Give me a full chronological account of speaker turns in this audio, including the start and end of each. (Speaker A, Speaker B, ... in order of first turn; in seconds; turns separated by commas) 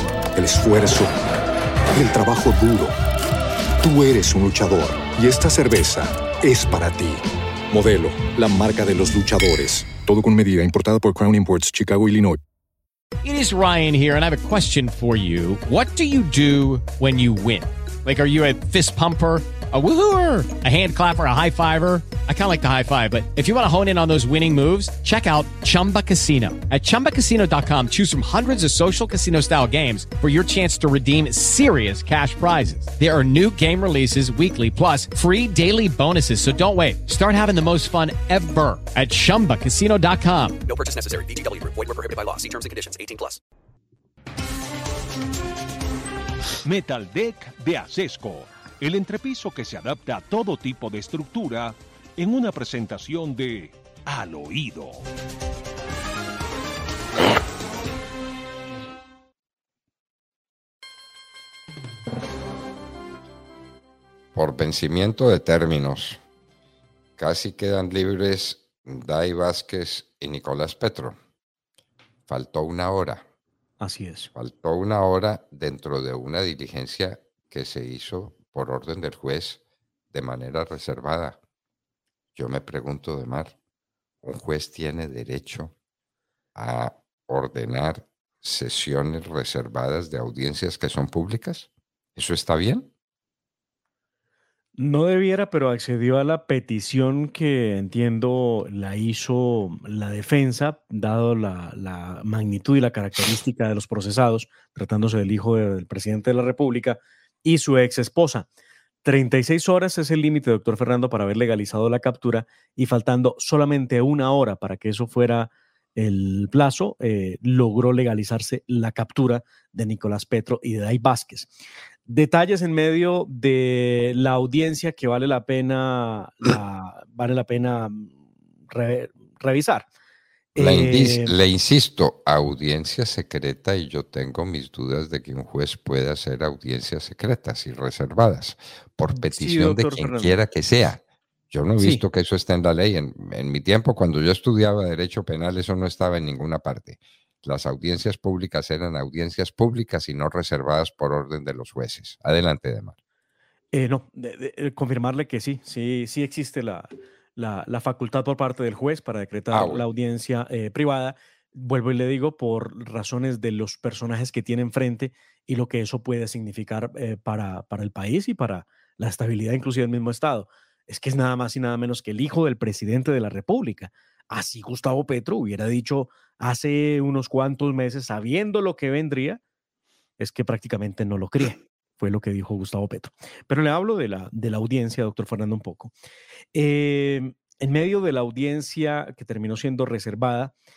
Speaker A: 0.3-1.2, Speaker A: 1.9-2.9, Speaker A: 3.8-12.4, Speaker B: 13.2-40.6, Speaker C: 40.6-43.4, Speaker D: 46.6-55.0, Speaker E: 64.3-66.2, Speaker E: 67.2-71.2, Speaker E: 72.3-73.2, Speaker F: 73.8-74.3, Speaker E: 74.3-79.6, Speaker E: 80.1-81.4, Speaker E: 82.3-83.5, Speaker E: 84.2-85.7, Speaker E: 86.5-92.9, Speaker F: 94.8-108.5, Speaker F: 109.0-121.5, Speaker F: 122.1-128.2, Speaker F: 128.7-129.9, Speaker F: 130.5-131.3, Speaker E: 130.6-152.9, Speaker F: 139.1-140.4, Speaker F: 141.8-142.0, Speaker F: 153.7-179.4, Speaker E: 159.5-159.8, Speaker F: 180.2-185.9, Speaker F: 186.5-190.5